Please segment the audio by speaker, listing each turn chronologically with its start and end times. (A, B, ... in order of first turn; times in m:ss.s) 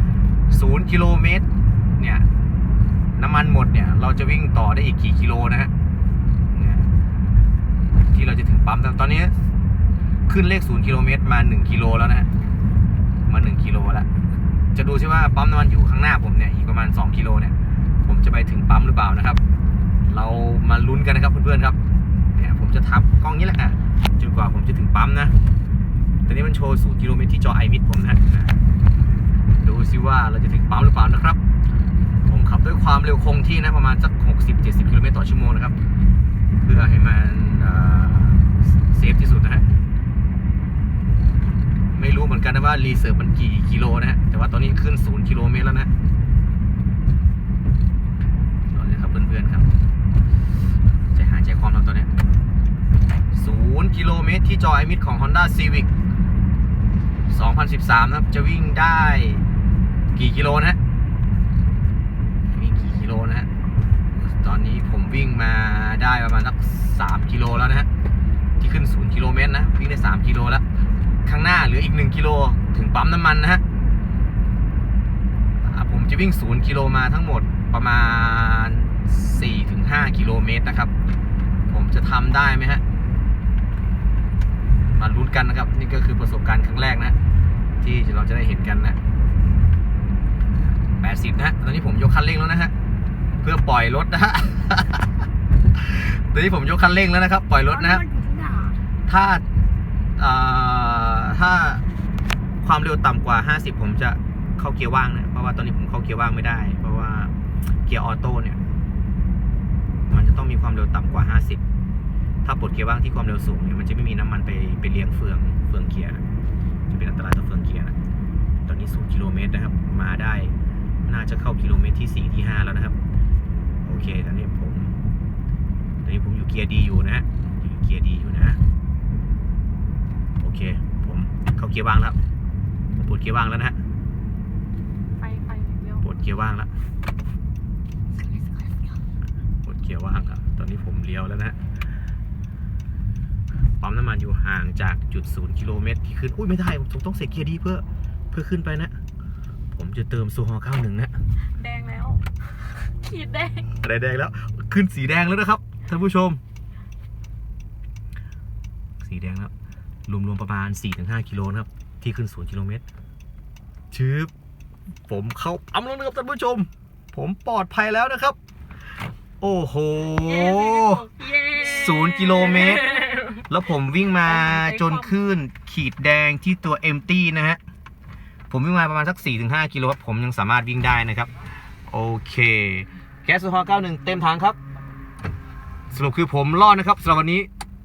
0:00.5-0:01.4 A
0:02.0-0:02.2 A
0:03.2-0:05.7 A
0:06.5-0:06.9 A
0:08.1-0:09.3 A
0:10.3-0:12.3 A
0:13.3-0:14.1 A
0:14.7-0:19.4 A
0:20.1-0:21.8 A
0:22.3-0:25.3 A
0:26.3-0:28.6 A
0:29.6-0:31.4 A
0:32.3-0:35.7 A
0:36.6-0:39.6 A
0:41.9-0:45.9 A
0:48.7-0:49.7 A
0:51.1-0:52.1 A
0:53.3-0:55.9 A
0:57.3-0:59.4 A
1:00.1-1:00.8 A
1:02.5-1:03.5 A
1:04.2-1:07.9 A
1:08.6-1:10.6 A
1:11.2-1:13.6 A
1:15.6-1:20.9 A
1:21.7-1:22.8 A
1:25.0-1:27.2 A
1:27.8-1:29.0 A
1:31.0-1:32.7 A
1:33.4-1:35.2 A
1:35.7-1:38.0 A
1:37.6-1:38.8 B
1:39.1-1:39.4 A
1:40.2-1:41.8 A
1:42.6-1:47.3 A
1:47.8-1:48.6 A
1:50.1-1:51.6 A
1:52.4-1:56.2 A
1:56.9-1:58.0 A
1:58.6-2:00.5 A
2:01.0-2:03.0 A
2:03.8-2:05.0 A
2:06.0-2:08.6 A
2:10.4-2:12.2 A
2:13.0-2:13.8 A
2:15.2-2:16.0 B
2:16.0-2:16.7 A
2:18.2-2:19.0 B
2:19.6-2:21.6 A
2:23.8-2:28.9 A
2:29.7-2:31.1 A
2:31.5-2:32.3 B
2:32.8-2:33.7 B
2:33.8-2:36.4 A
2:39.0-2:39.5 A
2:40.1-2:42.8 A
2:43.9-2:44.3 A
2:45.1-2:48.4 A
2:49.4-2:57.6 A
2:50.2-2:53.4 B
2:54.3-2:55.1 B
2:58.5-3:01.3 A
3:01.9-3:04.6 A
3:05.9-3:07.5 A